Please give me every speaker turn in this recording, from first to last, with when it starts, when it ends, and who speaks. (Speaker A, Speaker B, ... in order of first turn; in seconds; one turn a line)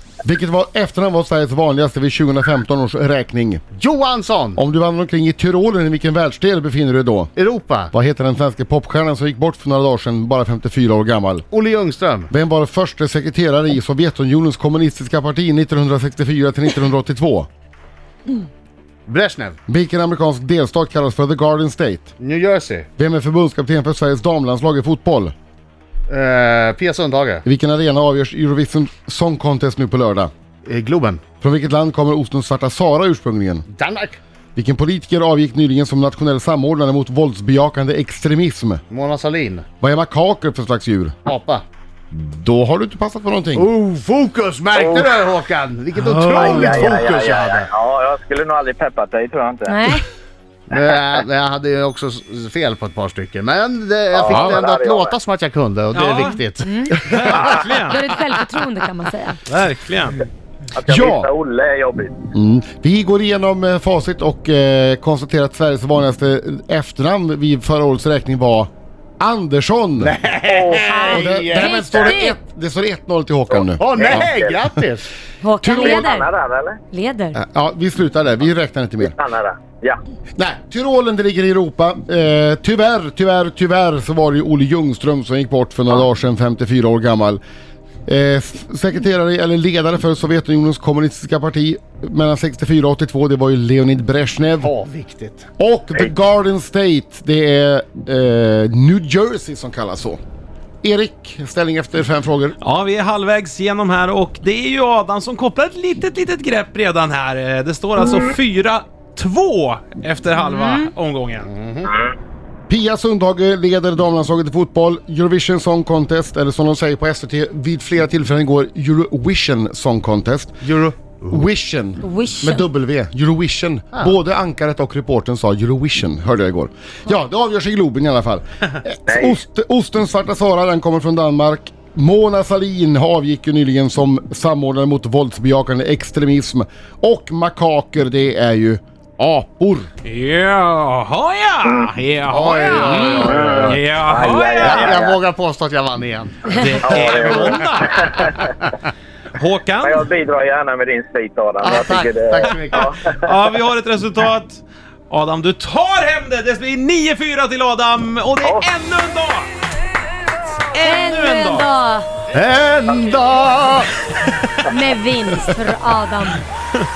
Speaker A: 0.2-3.6
Speaker B: 3.8-4.6
Speaker A: 4.6-7.3
Speaker B: 7.4-7.9
Speaker A: 7.9-11.5
Speaker B: 11.5-12.3
Speaker A: 12.3-17.5
Speaker B: 19.1-19.6
Speaker A: 19.7-22.1
Speaker B: 22.2-22.9
Speaker A: 23.0-25.3
Speaker B: 26.1-27.4
Speaker A: 27.4-30.3
Speaker B: 30.6-31.2
Speaker A: 31.4-33.6
Speaker B: 33.7-34.2
Speaker A: 34.5-38.8
Speaker B: 38.9-39.7
Speaker A: 39.8-41.2
Speaker B: 41.3-41.6
Speaker A: 42.1-43.7
Speaker B: 43.5-47.7
Speaker C: 44.7-45.2
Speaker D: 46.0-46.4
Speaker C: 46.3-50.0
Speaker E: 49.7-50.0
Speaker B: 50.7-57.6
Speaker C: 54.1-55.2
Speaker D: 55.9-56.4
Speaker E: 56.6-59.4
Speaker D: 57.0-58.0
Speaker D: 59.5-60.3
Speaker C: 60.7-62.2
Speaker A: 60.9-61.3
Speaker A: 62.3-70.2
Speaker B: 70.0-72.2
Speaker C: 70.4-71.1
Speaker E: 70.8-72.3
Speaker A: 71.1-74.3
Speaker B: 73.8-75.1
Speaker C: 73.9-74.6
Speaker E: 75.4-76.3
Speaker A: 75.6-76.0
Speaker C: 75.7-76.8
Speaker E: 76.9-77.4
Speaker A: 77.3-79.2
Speaker C: 79.0-80.0
Speaker A: 80.4-87.4
Speaker A: 88.1-94.7
Speaker B: 94.6-95.5
Speaker A: 95.6-100.2
Speaker A: 100.8-102.6
Speaker D: 102.6-111.5
Speaker C: 108.0-108.3
Speaker E: 110.4-110.9
Speaker B: 111.4-111.9
Speaker A: 112.7-120.7
Speaker B: 120.6-121.5
Speaker A: 121.3-139.9
Speaker E: 122.0-122.6
Speaker C: 129.1-129.4
Speaker D: 140.0-145.0
Speaker B: 142.3-143.8
Speaker C: 143.2-145.2
Speaker B: 144.6-147.6
Speaker D: 146.5-148.5
Speaker C: 146.8-148.4
Speaker D: 149.4-150.1
Speaker C: 149.8-153.3
Speaker B: 151.6-152.9
Speaker D: 153.1-159.5
Speaker D: 160.7-161.7
Speaker E: 160.8-162.1
Speaker B: 162.3-163.9
Speaker E: 164.7-166.4